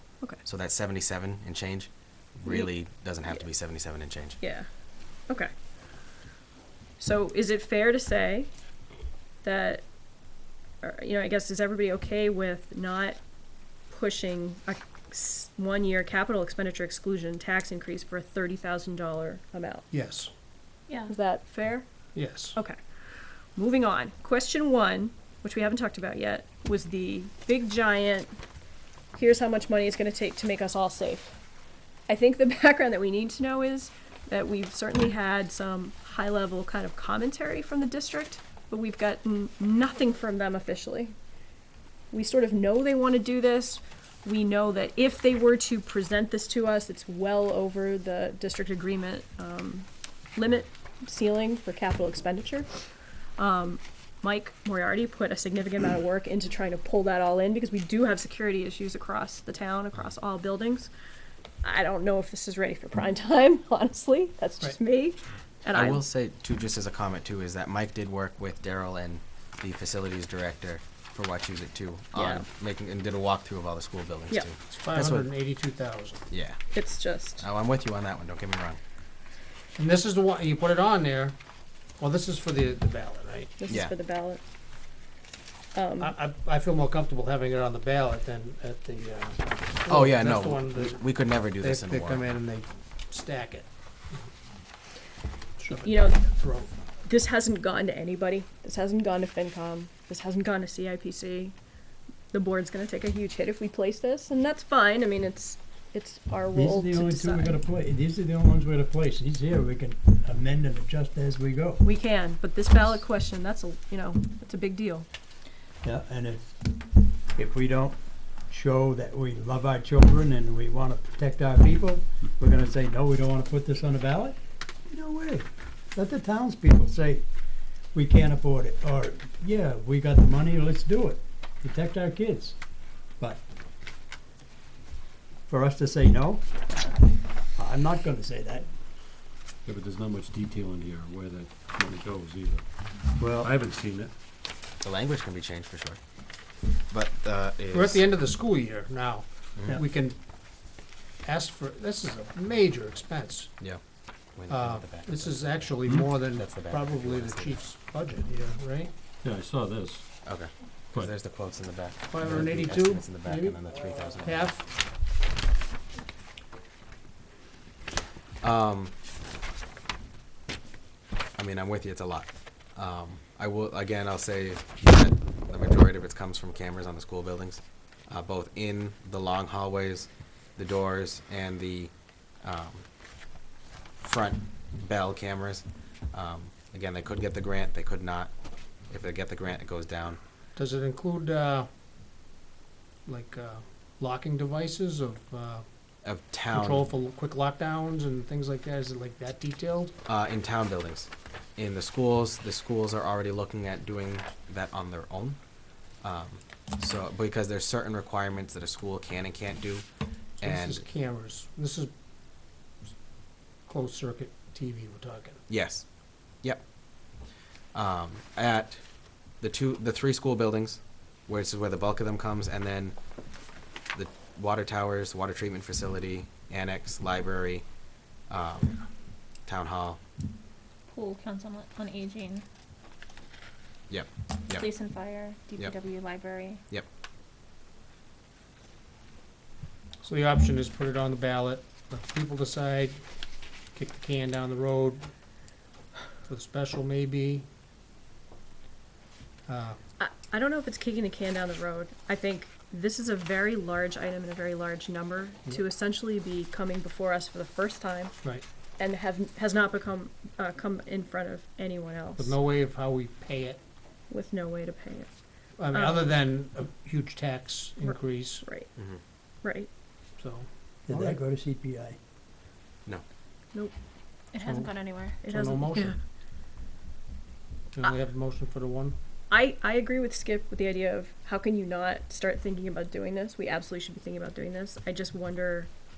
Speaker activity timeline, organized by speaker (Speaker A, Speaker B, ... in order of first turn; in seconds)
Speaker A: 0.4-4.4, 65.7-75.3, 76.3-76.7, 77.4-78.8, 83.7-83.9, 89.9-92.2, 144.8-146.0, 146.9-148.0, 154.3-157.6, 160.2-164.5, 168.4-168.9, 171.4-182.8, 184.0-188.3, 188.9-190.2, 196.0-196.9, 200.1-205.4, 206.0-209.9, 210.4-210.8, 215.5-215.8, 217.7-218.8, 219.4-223.0, 223.9-227.7, 228.3-228.8, 229.5-230.0, 233.9-234.7, 268.8-269.0
Speaker B: 2.5-2.7, 4.4-4.7, 7.0-8.5, 9.4-9.9, 10.8-13.2, 13.9-19.9, 21.1-21.9, 23.6-28.3, 29.1-31.4, 32.1-41.1, 42.1-52.7, 53.4-60.9, 61.6-66.1, 72.2-72.5, 76.7-77.5, 83.6-84.4, 85.7-86.1, 95.7-96.3, 97.0-101.5, 102.3-107.6, 111.8-115.1, 250.0-258.1, 258.8-262.4, 264.1-265.2, 265.7-266.2, 267.8-268.7, 269.4-269.7, 275.2-276.0, 279.3-285.7
Speaker C: 19.9-20.3, 22.1-22.6, 74.7-76.2, 79.8-81.4, 82.0-83.5, 86.0-94.2, 95.6-96.8, 147.7-150.2, 151.2-153.5, 154.5-158.9, 162.1-164.7, 190.6-191.7, 193.1-195.6, 196.5-199.9, 210.4-211.9, 213.7-215.4, 240.0-243.0, 243.8-245.1, 246.2-247.5, 249.5-249.8, 262.2-263.6, 265.6-268.5, 270.2-271.2, 274.5-276.0, 277.8-279.0
Speaker D: 20.9-21.1, 230.9-232.4, 234.5-236.6, 274.3-275.2
Speaker E: 106.5-111.8, 115.8-116.5, 117.4-118.0, 118.5-124.4, 124.9-127.2, 127.9-132.6, 135.5-136.4, 137.6-138.7, 143.2-143.5, 270.9-272.0
Speaker F: 139.7-142.7, 143.2-144.1, 159.2-160.1